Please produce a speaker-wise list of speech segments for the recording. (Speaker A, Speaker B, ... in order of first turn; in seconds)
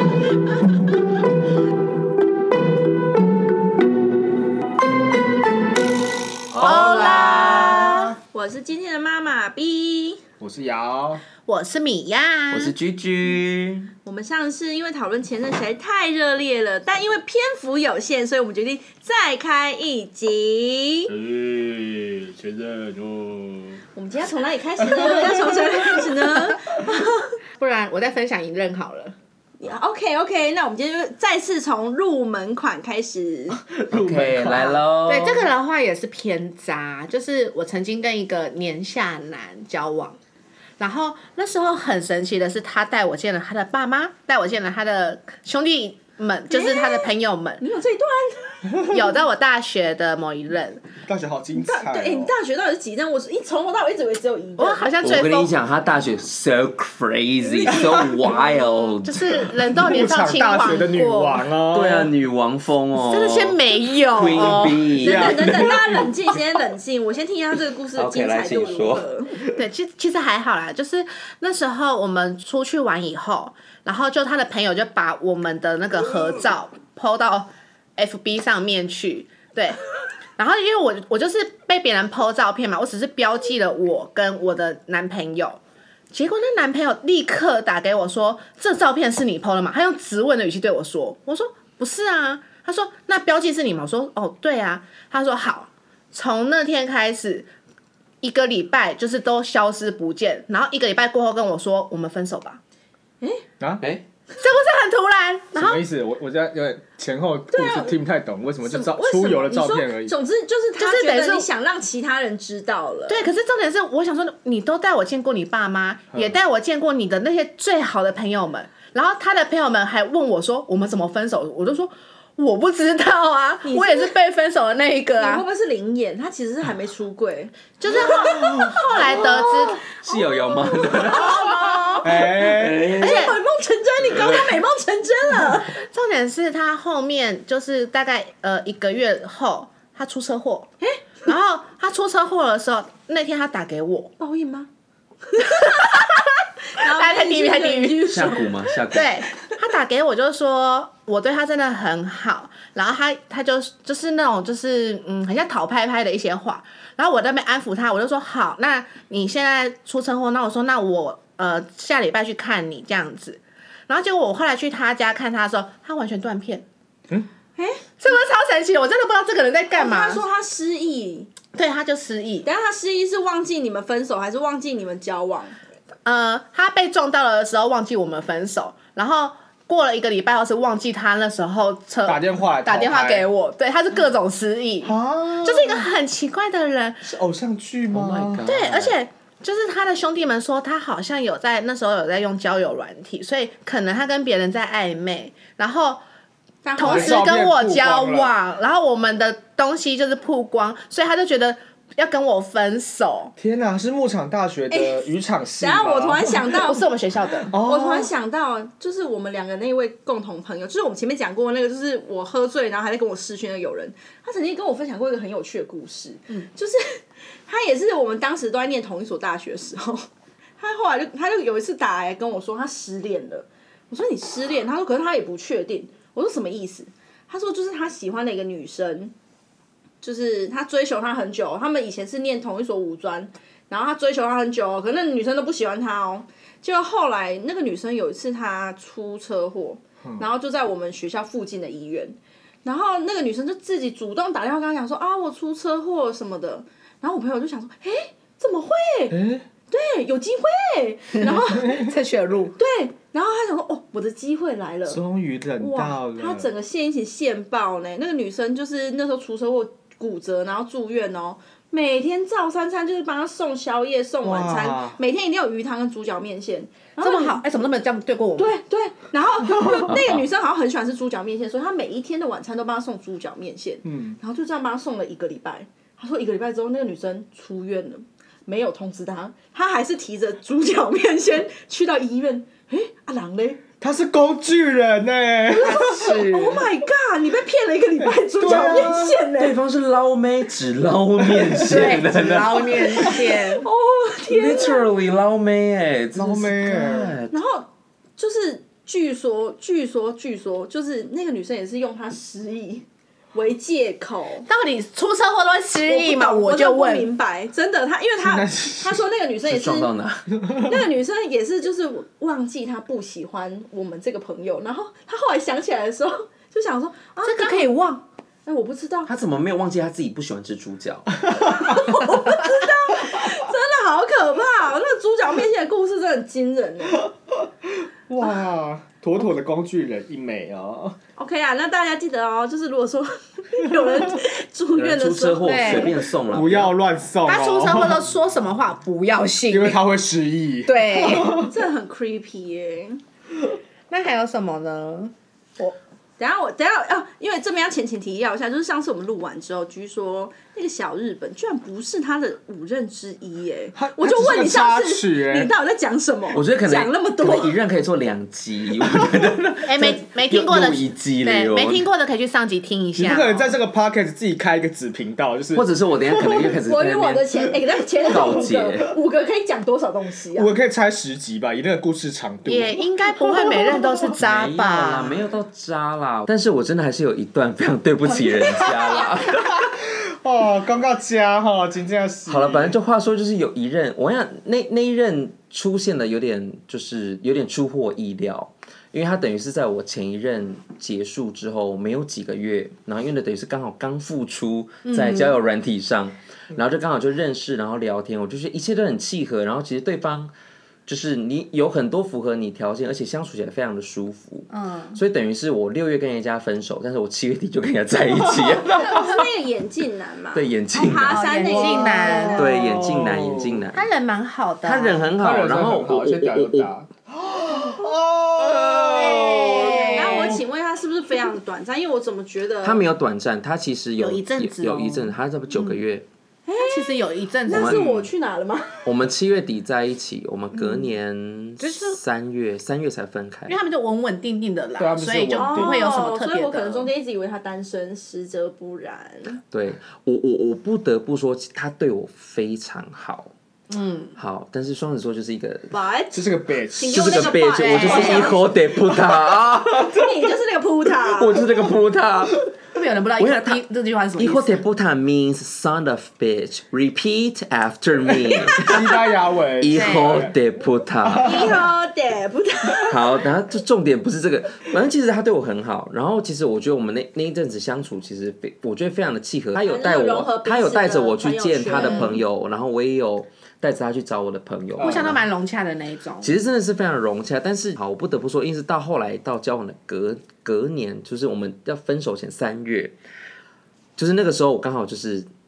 Speaker A: 6.5-7.8, 10.4-11.2, 21.1-23.8, 25.0-26.0, 33.7-34.8, 51.0-52.3, 59.6-62.1, 64.4-66.1, 105.5-110.1, 132.0-132.8, 182.0-183.2, 184.8-185.9, 187.0-188.4, 196.8-198.3, 203.4-206.4, 207.5-208.1, 249.1-249.4, 254.9-256.5, 264.2-265.0, 269.5-269.9, 273.9-274.2, 283.8-286.1, 288.4-289.2, 291.3-293.2, 296.1-297.2, 308.2-309.0, 328.1-331.0, 336.3-338.0, 339.5-341.5, 353.8-355.5, 363.0-366.5, 370.4-374.1, 379.6-382.8, 411.5-413.6, 415.2-420.2, 427.6-428.1, 434.8-435.9, 446.1-447.4, 458.1-460.4, 461.1-461.6, 474.8-475.2
Speaker B: 6.6-6.8, 12.5-13.9, 33.9-35.5, 55.0-59.5, 61.7-66.1, 67.9-69.1, 129.9-131.5, 132.4-133.3, 134.0-134.6, 148.1-149.2, 187.9-188.9, 269.9-270.3, 288.6-293.1, 294.3-297.4, 309.4-310.3, 319.1-321.1, 334.8-336.7, 356.3-361.9, 365.5-367.5, 368.0-368.9, 374.2-379.6, 382.3-400.3, 400.9-409.2, 410.3-411.3, 412.3-413.9, 414.6-416.7, 422.6-426.1, 427.5-427.9, 428.9-433.6, 439.5-443.3, 444.2-445.7, 446.9-450.0, 451.1-452.5, 453.2-453.6, 454.2-461.6, 462.9-475.2, 476.2-482.9, 484.0-485.3
Speaker C: 6.6-8.1, 11.5-12.7, 27.6-29.1, 34.5-40.2, 40.8-47.6, 48.8-50.9, 54.6-55.5, 59.0-61.5, 62.9-64.9, 69.5-79.8, 80.4-85.6, 86.1-97.5, 98.2-102.6, 104.4-105.8, 110.8-111.5, 113.1-125.4, 127.8-129.8, 132.9-133.4, 135.7-140.7, 141.2-144.1, 145.5-146.2, 146.8-148.3, 148.8-166.7, 168.0-170.2, 171.5-172.5, 176.0-187.0, 188.4-196.0, 196.8-203.3, 206.6-207.5, 251.6-252.6, 267.0-268.6, 285.6-286.6, 291.6-293.7, 304.5-307.1, 317.2-318.0, 335.4-336.0, 337.2-339.8, 340.7-341.5, 343.9-345.8, 359.6-363.6, 372.5-375.3, 394.9-395.4, 404.5-405.0, 411.1-412.5, 413.7-415.1, 418.9-420.4, 424.0-425.8, 426.6-427.8, 430.5-430.9, 431.6-432.0, 433.5-436.9, 443.7-444.1, 447.6-448.4, 452.7-454.6, 459.7-460.3, 471.7-472.2, 474.8-476.3
Speaker D: 6.6-10.2, 14.1-21.1, 23.9-27.3, 29.6-33.6, 46.5-48.8, 51.5-54.8, 57.4-58.7, 65.0-69.3, 107.5-108.0, 108.6-113.3, 123.7-124.1, 125.2-135.8, 144.2-144.7, 145.3-146.2, 146.7-148.7, 167.6-167.8, 169.7-171.3, 172.4-175.6, 196.7-197.2, 204.7-205.1, 205.6-206.8, 207.5-229.1, 230.0-249.2, 249.7-251.9, 252.6-255.0, 255.6-267.4, 268.4-283.6, 285.5-289.6, 293.4-294.9, 297.3-304.5, 305.9-309.9, 310.5-317.7, 318.5-319.1, 321.4-327.1, 331.2-335.9, 341.2-343.0, 346.2-357.6, 366.5-370.5, 408.6-412.4, 419.3-422.9, 426.5-428.8, 435.3-439.4, 445.7-448.4, 449.9-451.4, 461.2-463.2, 469.6-472.1